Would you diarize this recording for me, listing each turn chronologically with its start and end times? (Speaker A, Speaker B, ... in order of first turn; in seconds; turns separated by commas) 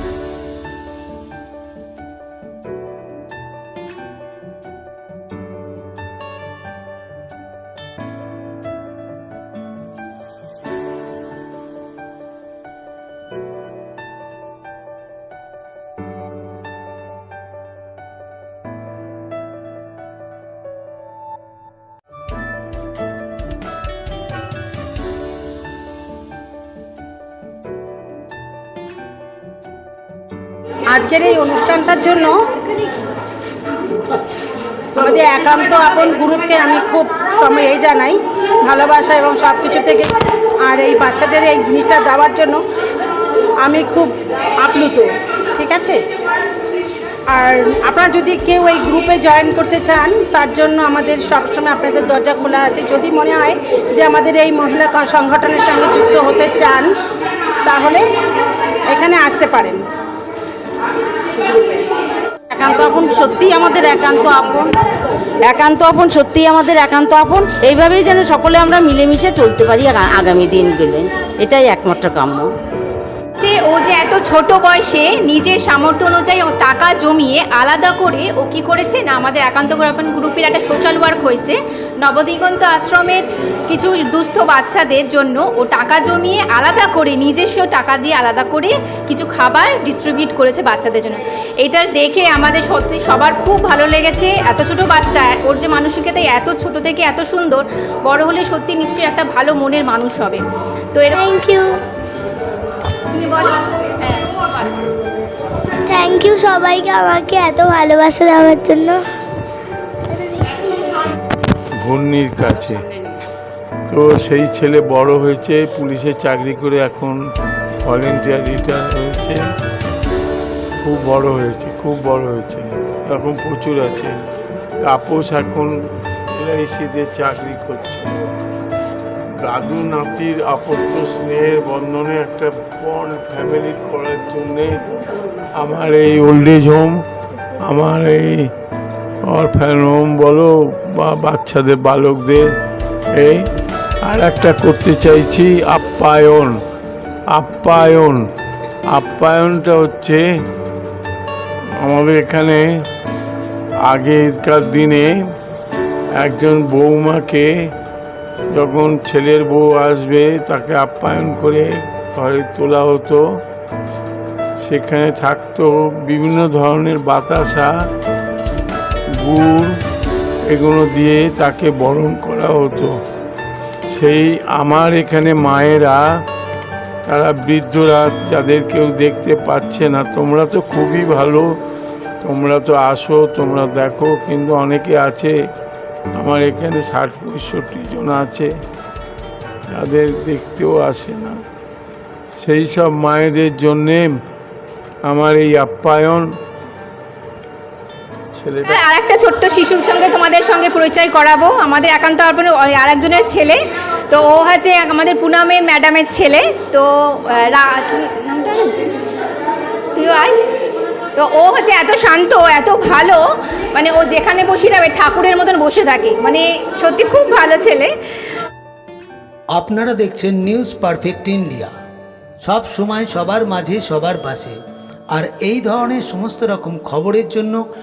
Speaker A: 30.9-32.4, Speaker A: 35.0-42.6, Speaker A: 43.6-46.0, Speaker A: 47.3-56.9, Speaker A: 57.6-58.0, Speaker A: 58.9-59.8, Speaker B: 62.5-64.8, Speaker B: 65.4-72.5, Speaker C: 73.4-100.4, Speaker C: 100.9-101.2, Speaker D: 101.2-101.8, Speaker C: 103.1-104.3, Speaker D: 105.8-109.1, Speaker D: 110.1-110.5, Speaker E: 111.8-112.8, Speaker E: 113.9-117.2, Speaker E: 117.8-119.4, Speaker E: 120.8-124.2, Speaker E: 124.8-125.7, Speaker E: 126.3-128.1, Speaker E: 129.4-135.0, Speaker E: 135.6-136.9, Speaker E: 137.6-138.5, Speaker E: 139.3-142.5, Speaker E: 143.1-143.4, Speaker E: 144.0-146.6, Speaker E: 147.3-148.2, Speaker E: 148.9-150.2, Speaker E: 151.8-152.6, Speaker E: 153.8-155.1, Speaker E: 156.2-157.5, Speaker E: 158.5-163.2, Speaker E: 164.6-167.7, Speaker E: 169.2-169.8, Speaker E: 170.4-172.9, Speaker E: 173.9-176.0, Speaker E: 177.1-181.5, Speaker E: 182.2-185.3, Speaker E: 186.2-188.5, Speaker E: 189.7-191.4, Speaker E: 192.3-194.1, Speaker E: 195.1-196.2, Speaker E: 198.3-198.8, Speaker C: 198.7-208.9, Speaker C: 209.9-210.4, Speaker C: 211.1-217.9, Speaker F: 219.5-221.7, Speaker F: 222.4-224.6, Speaker F: 225.1-227.6